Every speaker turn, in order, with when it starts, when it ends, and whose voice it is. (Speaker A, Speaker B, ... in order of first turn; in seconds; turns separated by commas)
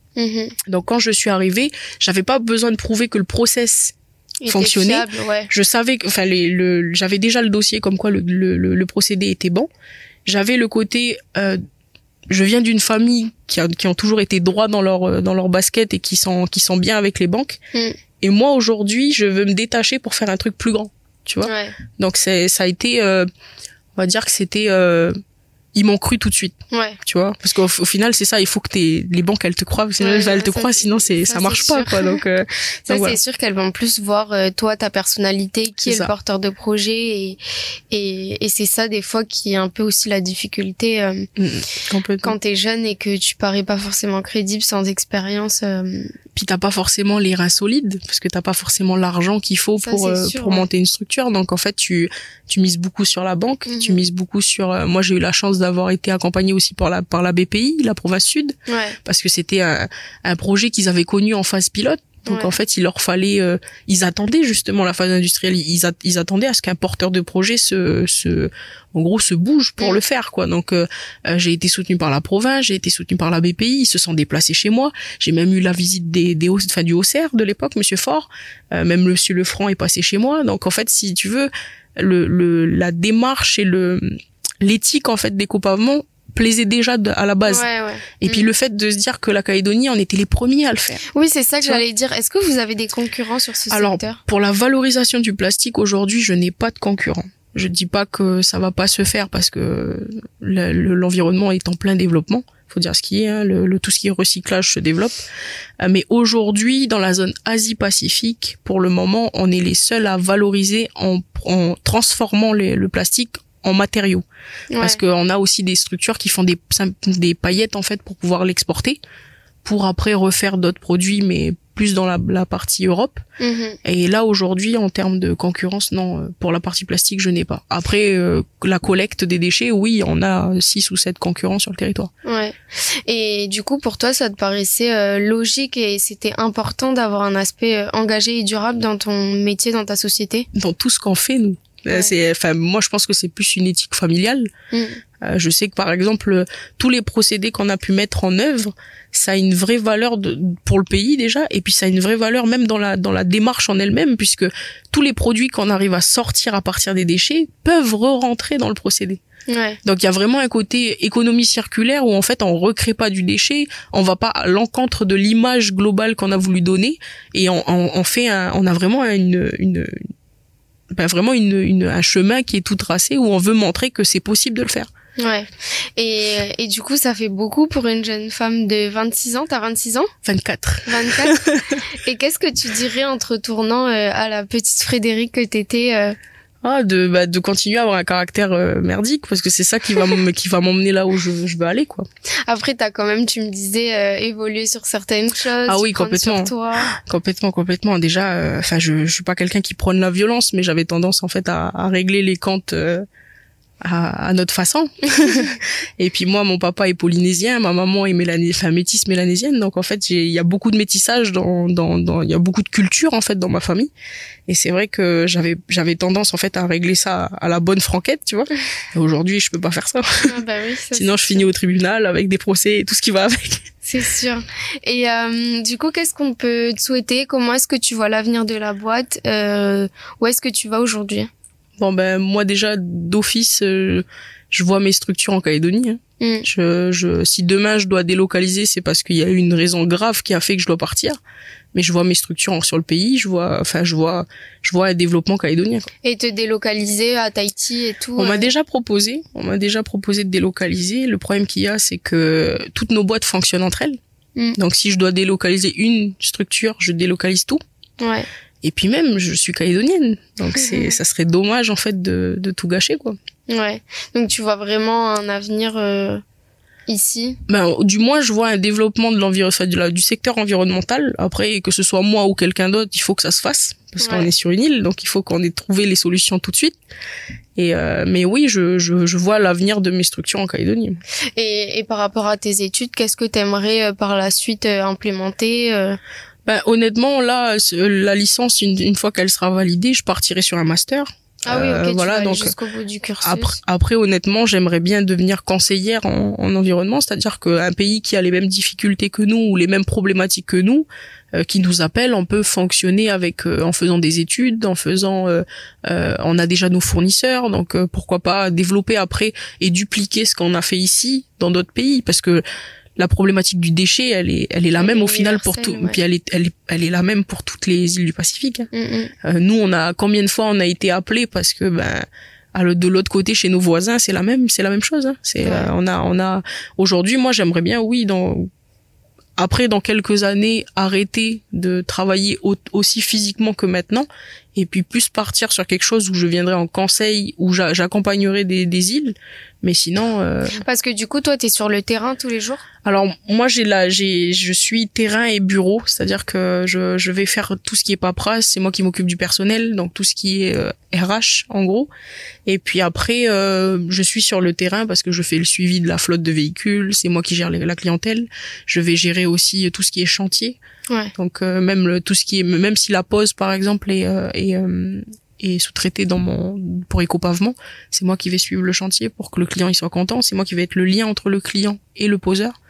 Speaker A: 0.2-0.6, Speaker B: 0.7-3.9, Speaker A: 4.4-5.5, Speaker B: 4.5-9.7, Speaker B: 10.2-11.6, Speaker B: 12.3-17.6, Speaker B: 18.2-23.3, Speaker A: 21.4-21.7, Speaker B: 23.9-25.1, Speaker B: 25.7-33.2, Speaker A: 26.7-27.0, Speaker A: 30.0-32.2, Speaker A: 32.9-37.4, Speaker B: 35.8-36.1, Speaker A: 37.9-41.3, Speaker B: 41.4-42.3, Speaker A: 42.2-46.1, Speaker B: 46.3-87.6, Speaker A: 49.8-50.6, Speaker A: 53.7-54.0, Speaker A: 58.7-59.0, Speaker A: 62.3-62.5, Speaker A: 87.4-88.5, Speaker B: 88.2-91.0, Speaker A: 91.1-94.2, Speaker B: 93.7-105.2, Speaker B: 105.8-114.2, Speaker A: 114.7-115.0, Speaker B: 114.8-119.0, Speaker B: 119.6-123.2, Speaker A: 123.4-123.8, Speaker B: 123.8-132.1, Speaker A: 132.2-140.5, Speaker B: 140.5-144.5, Speaker A: 144.7-145.0, Speaker B: 145.2-159.2, Speaker A: 159.5-159.8, Speaker B: 159.8-170.1, Speaker B: 170.9-174.9, Speaker A: 175.2-180.1, Speaker B: 180.2-181.8, Speaker A: 180.8-186.2, Speaker B: 186.6-192.1, Speaker A: 192.4-196.9, Speaker B: 195.7-203.0, Speaker B: 203.8-213.9, Speaker B: 214.5-220.3, Speaker A: 220.3-221.5, Speaker B: 220.9-223.7, Speaker A: 223.8-231.3, Speaker B: 231.8-241.2, Speaker A: 236.2-236.4, Speaker B: 241.7-245.9, Speaker A: 246.0-248.5, Speaker B: 248.2-254.0, Speaker B: 254.6-257.6, Speaker A: 258.0-258.3, Speaker B: 258.6-263.1, Speaker A: 260.6-260.9, Speaker A: 263.5-266.2, Speaker A: 266.9-267.4, Speaker B: 267.5-276.8, Speaker A: 274.0-274.3, Speaker B: 277.6-281.0, Speaker A: 281.3-286.0, Speaker B: 286.4-292.5, Speaker A: 291.4-293.6, Speaker B: 293.2-312.4, Speaker B: 313.0-318.7, Speaker A: 314.8-316.0, Speaker A: 318.7-319.1, Speaker B: 319.2-328.5, Speaker A: 325.4-325.7, Speaker B: 329.4-340.6, Speaker A: 340.5-342.6, Speaker B: 342.8-351.9, Speaker B: 352.4-360.6, Speaker B: 361.1-372.5